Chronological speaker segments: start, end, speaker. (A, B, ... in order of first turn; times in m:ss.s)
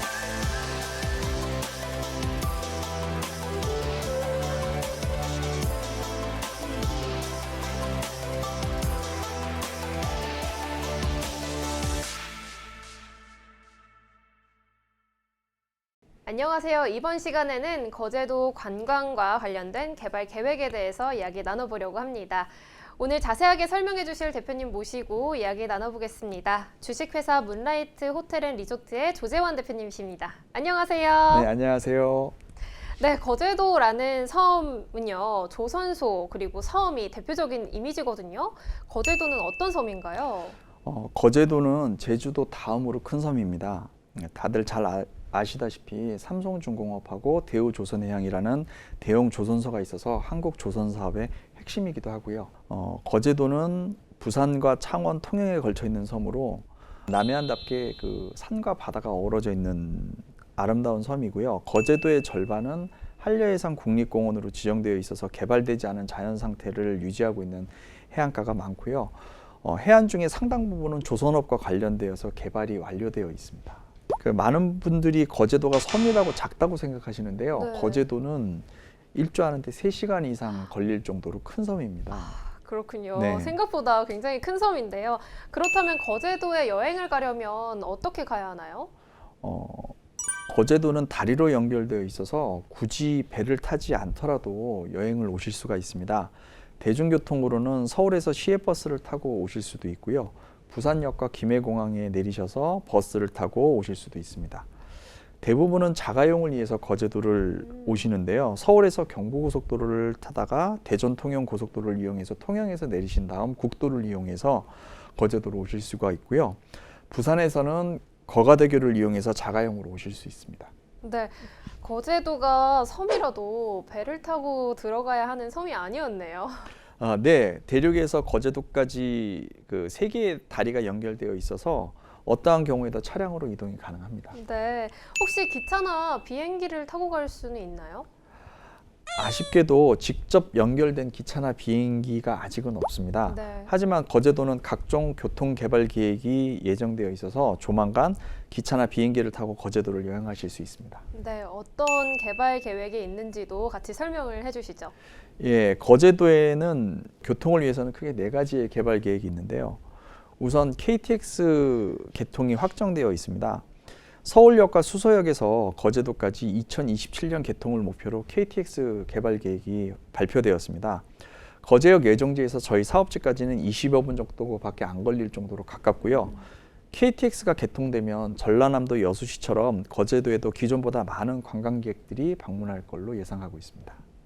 0:16.3-0:31.5 A
0:31.3-0:32.4 B
0:33.0-0:40.6 A
0:40.8-1:22.4 B
1:17.6-1:18.1 A
1:22.1-1:28.9 A
1:23.1-1:23.6 B
1:29.4-1:30.0 B
1:30.5-1:44.7 B
1:45.4-2:00.7 B
2:01.0-2:06.7 A
2:07.0-2:14.4 B
2:14.3-2:18.1 A
2:19.2-2:31.0 B
2:23.3-2:23.7 A
2:31.1-2:34.9 A
2:35.4-2:39.8 B
2:40.4-2:43.7 B
2:44.2-2:56.4 B
2:56.9-3:04.0 B